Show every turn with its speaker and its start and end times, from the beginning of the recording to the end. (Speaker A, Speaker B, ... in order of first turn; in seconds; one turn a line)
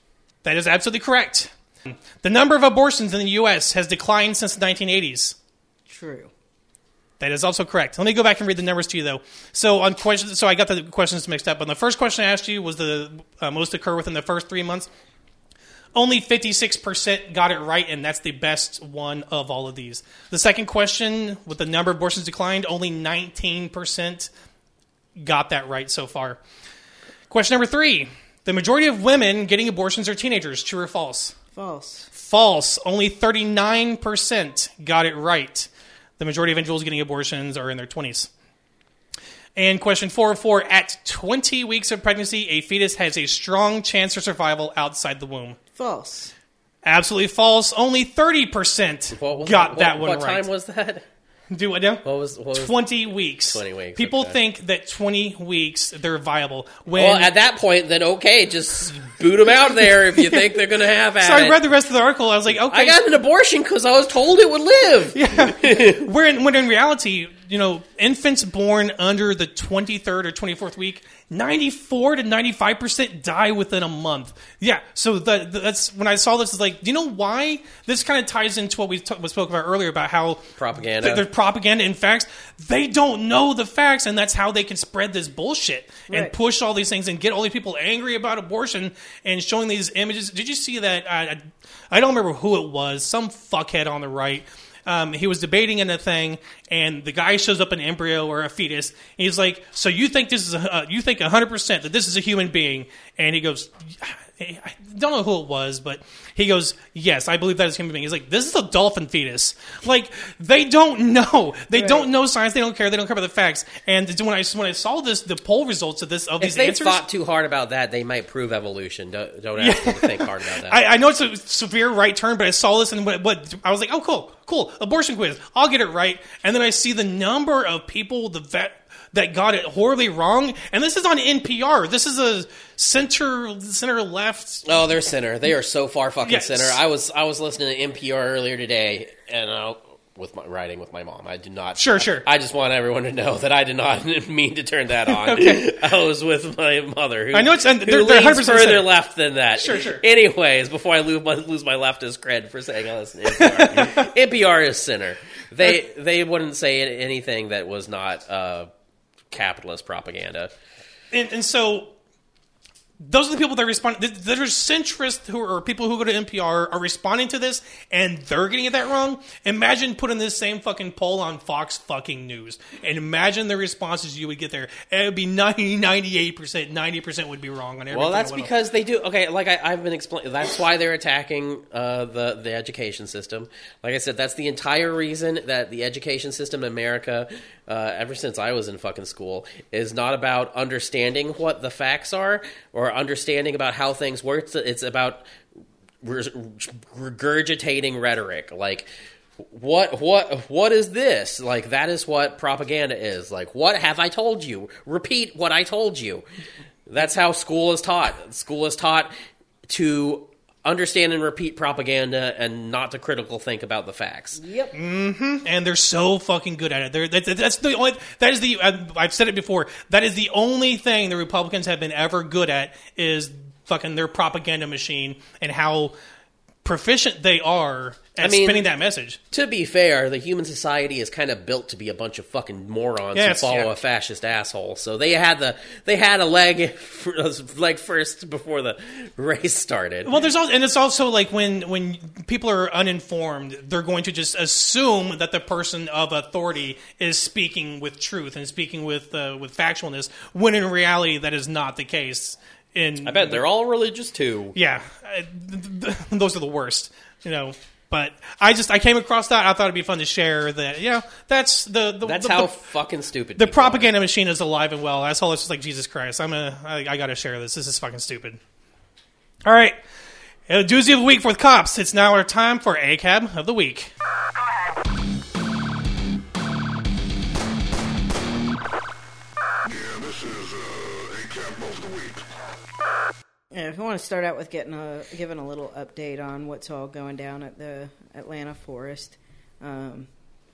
Speaker A: 0.4-5.4
Speaker B: 5.9-6.3
Speaker A: 7.2-14.9
Speaker A: 15.9-24.3
Speaker A: 25.2-26.4
Speaker A: 27.3-31.4
Speaker B: 31.5-32.1
Speaker A: 32.1-38.3
Speaker A: 39.5-45.6
Speaker B: 45.7-46.3
Speaker A: 46.8-50.5
Speaker C: 49.1-51.0
Speaker A: 51.5-57.3
Speaker C: 52.0-52.9
Speaker C: 53.5-54.4
Speaker C: 56.9-61.6
Speaker A: 60.1-60.6
Speaker A: 61.2-63.0
Speaker C: 62.6-66.1
Speaker A: 65.1-117.0
Speaker C: 80.6-81.3
Speaker B: 111.7-112.1
Speaker C: 116.4-120.8
Speaker A: 119.6-134.7
Speaker C: 134.6-158.7
Speaker A: 136.2-136.8
Speaker A: 141.8-142.3
Speaker A: 145.1-145.7
Speaker A: 147.3-148.9
Speaker A: 149.6-150.0
Speaker A: 153.3-154.1
Speaker C: 159.3-160.5
Speaker A: 161.1-161.9
Speaker A: 163.0-178.5
Speaker C: 177.9-195.2
Speaker C: 196.0-206.2
Speaker C: 206.9-209.1
Speaker C: 209.7-214.4
Speaker B: 214.4-214.7
Speaker A: 214.7-225.9
Speaker A: 226.6-229.2
Speaker C: 228.2-228.7
Speaker C: 229.3-240.2
Speaker A: 233.1-233.7
Speaker A: 240.1-253.4
Speaker C: 253.0-254.6
Speaker A: 254.6-262.6
Speaker C: 262.0-263.9
Speaker A: 263.4-268.4
Speaker A: 269.4-269.8
Speaker A: 270.5-273.9
Speaker B: 283.5-290.1